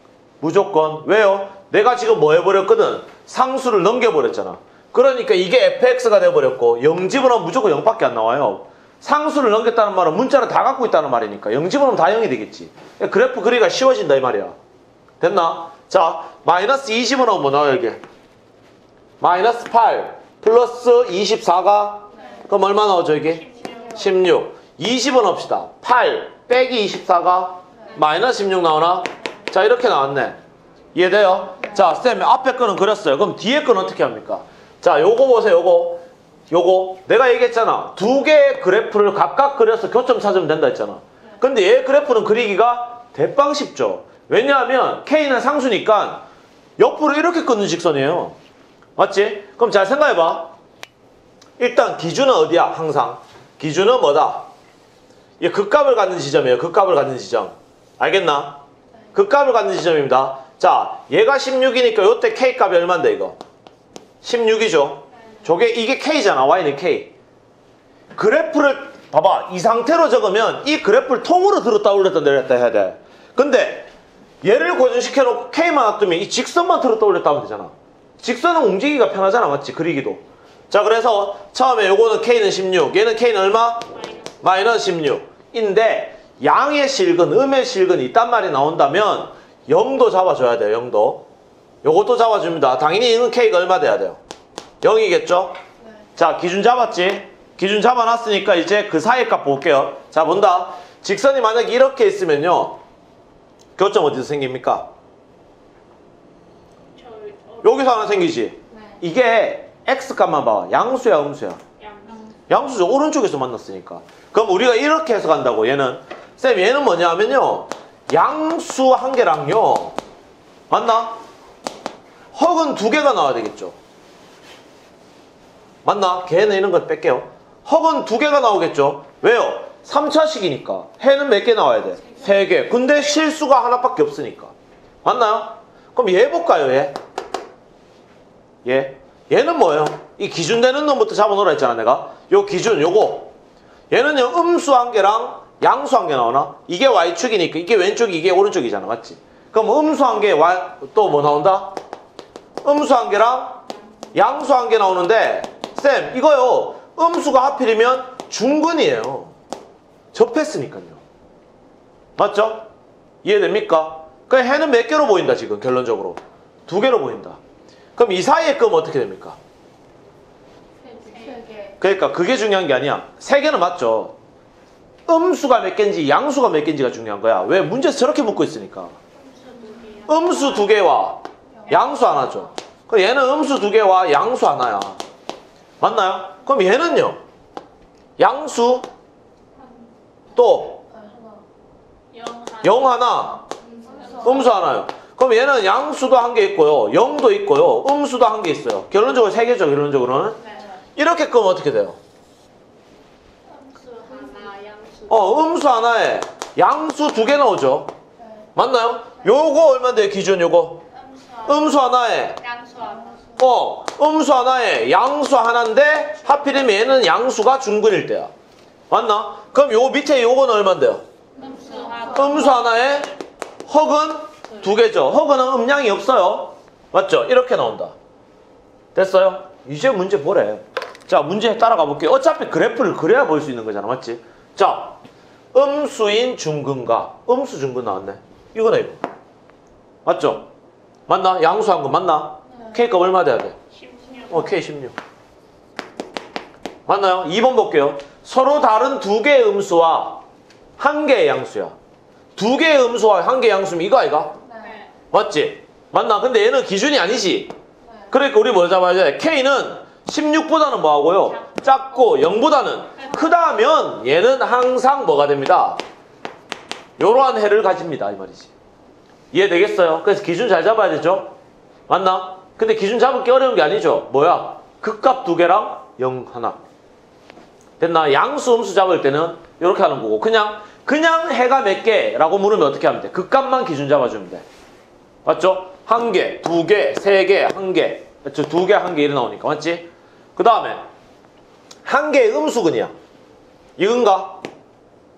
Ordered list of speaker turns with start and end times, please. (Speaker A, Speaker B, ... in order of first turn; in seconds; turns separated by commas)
Speaker A: 0.4-14.6, Speaker A: 15.2-18.0, Speaker A: 19.2-30.4, Speaker B: 22.1-22.5, Speaker C: 22.2-22.6, Speaker C: 23.1-24.1, Speaker B: 23.5-24.1, Speaker A: 30.9-46.2, Speaker B: 31.6-31.9, Speaker A: 46.8-48.4, Speaker A: 49.0-50.5, Speaker A: 51.6-54.5, Speaker A: 55.4-58.6, Speaker A: 59.1-63.4, Speaker A: 64.2-67.1, Speaker A: 68.1-73.9, Speaker A: 74.4-91.2, Speaker C: 83.9-84.8, Speaker A: 91.8-94.2, Speaker A: 94.8-95.6, Speaker B: 95.8-96.1, Speaker A: 96.2-102.8, Speaker A: 103.8-104.9, Speaker C: 106.9-108.2, Speaker A: 107.6-111.6, Speaker B: 108.7-109.0, Speaker C: 111.8-112.3, Speaker A: 112.5-120.0, Speaker A: 120.7-121.2, Speaker A: 122.3-123.8, Speaker A: 125.8-134.5, Speaker A: 135.0-137.0, Speaker A: 138.6-143.3, Speaker A: 143.9-151.8, Speaker A: 152.6-153.6, Speaker A: 154.1-159.3, Speaker A: 160.1-161.0, Speaker A: 162.2-162.7, Speaker A: 163.2-167.4, Speaker A: 167.9-169.4, Speaker B: 170.8-171.8, Speaker C: 170.9-171.4, Speaker A: 171.8-174.1, Speaker A: 175.1-178.9, Speaker C: 179.1-180.8, Speaker A: 180.1-185.0, Speaker B: 181.5-182.5, Speaker A: 185.8-187.2, Speaker A: 188.2-188.9, Speaker A: 190.3-190.8, Speaker B: 190.7-191.4, Speaker C: 192.1-193.0, Speaker A: 192.6-193.4, Speaker B: 193.6-194.5, Speaker C: 193.9-194.4, Speaker A: 194.2-200.4, Speaker B: 200.4-200.8, Speaker A: 200.9-202.0, Speaker C: 203.4-205.5, Speaker B: 204.1-204.5, Speaker A: 205.1-207.9, Speaker B: 208.2-208.5, Speaker A: 208.5-210.8, Speaker C: 210.9-211.8, Speaker A: 211.4-212.4, Speaker C: 212.4-213.2, Speaker B: 212.8-213.4, Speaker A: 213.4-218.3, Speaker A: 218.9-221.0, Speaker C: 221.3-222.9, Speaker B: 221.6-222.6, Speaker A: 222.1-223.1, Speaker A: 223.7-227.9, Speaker A: 228.9-235.0, Speaker A: 235.5-239.0, Speaker A: 240.0-240.5, Speaker A: 241.1-243.6, Speaker B: 242.5-242.8, Speaker C: 243.7-244.6, Speaker A: 244.3-244.9, Speaker A: 246.9-250.2, Speaker A: 250.8-251.7, Speaker A: 252.3-254.4, Speaker B: 254.4-254.8, Speaker C: 254.6-254.9, Speaker A: 255.1-257.5, Speaker B: 257.8-258.1, Speaker A: 258.1-265.8, Speaker C: 261.4-262.0, Speaker C: 263.0-263.3, Speaker A: 267.0-268.5, Speaker A: 269.3-271.3, Speaker A: 271.9-276.6, Speaker A: 277.8-284.4, Speaker A: 285.2-290.8, Speaker A: 291.8-292.9, Speaker A: 293.8-294.4